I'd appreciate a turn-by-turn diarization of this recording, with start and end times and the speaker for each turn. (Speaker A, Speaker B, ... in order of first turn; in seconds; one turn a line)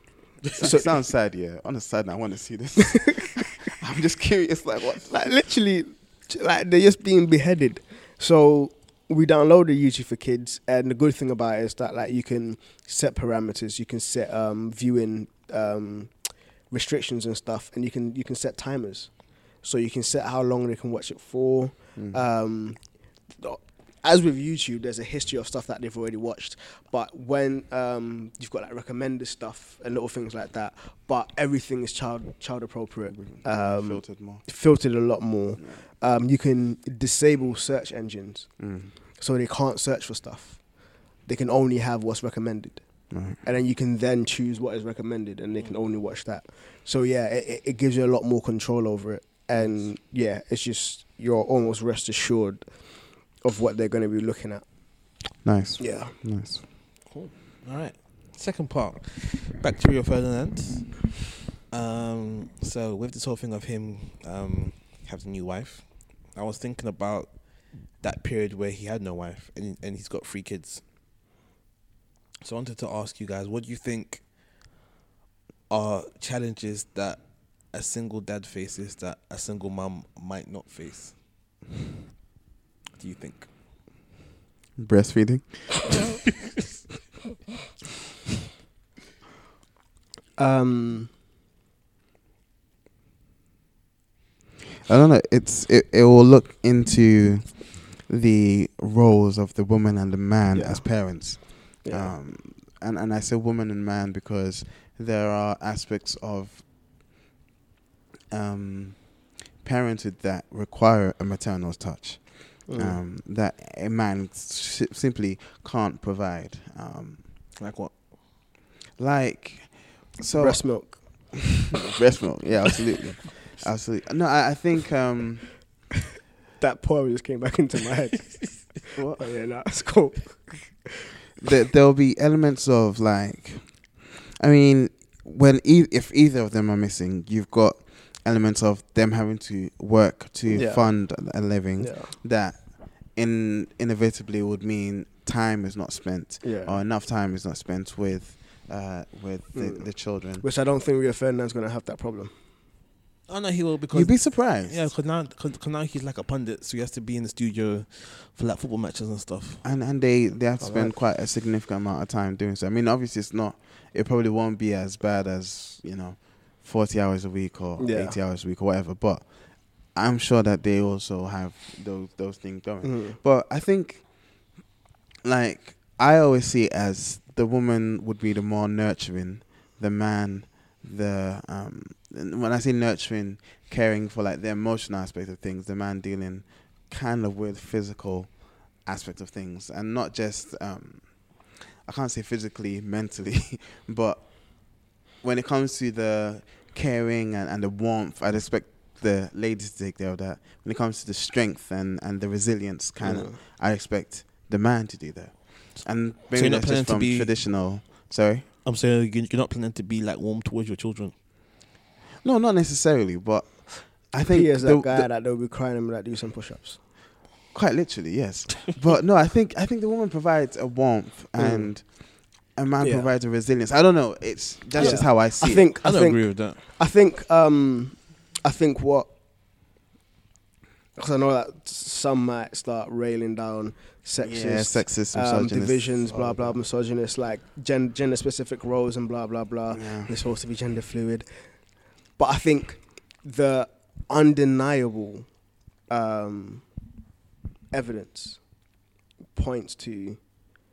Speaker A: 0.6-0.9
Speaker B: 0.6-5.3
Speaker A: 5.1-55.2
Speaker B: 22.0-22.2
Speaker B: 33.1-34.5
Speaker B: 38.6-39.0
Speaker B: 43.1-43.4
Speaker C: 49.5-49.9
Speaker B: 55.4-56.6
Speaker A: 55.8-56.2
Speaker C: 57.1-70.8
Speaker C: 72.4-74.3
Speaker C: 75.7-81.2
Speaker C: 83.0-83.5
Speaker B: 84.8-85.9
Speaker A: 90.4-91.1
Speaker B: 94.9-106.9
Speaker A: 100.5-102.1
Speaker B: 108.3-117.5
Speaker A: 112.7-113.0
Speaker C: 117.6-118.1
Speaker B: 119.0-121.3
Speaker A: 120.3-121.4
Speaker B: 121.8-125.7
Speaker A: 126.6-130.9
Speaker B: 128.9-129.3
Speaker B: 131.4-150.4
Speaker A: 140.5-142.2
Speaker A: 146.4-146.8
Speaker A: 149.5-152.3
Speaker C: 153.3-159.6
Speaker B: 153.9-155.0
Speaker B: 159.6-174.6
Speaker A: 160.6-161.0
Speaker A: 167.8-168.2
Speaker A: 172.8-173.2
Speaker B: 175.2-208.5
Speaker A: 203.0-203.4
Speaker C: 206.3-207.8
Speaker C: 208.6-211.2
Speaker B: 212.2-215.1
Speaker A: 214.3-216.8
Speaker B: 217.5-225.7
Speaker A: 221.4-221.9
Speaker A: 222.8-223.1
Speaker C: 224.8-226.7
Speaker A: 224.8-229.1
Speaker A: 230.9-246.9
Speaker B: 234.2-236.6
Speaker B: 239.7-240.1
Speaker A: 247.7-248.7
Speaker A: 249.3-250.3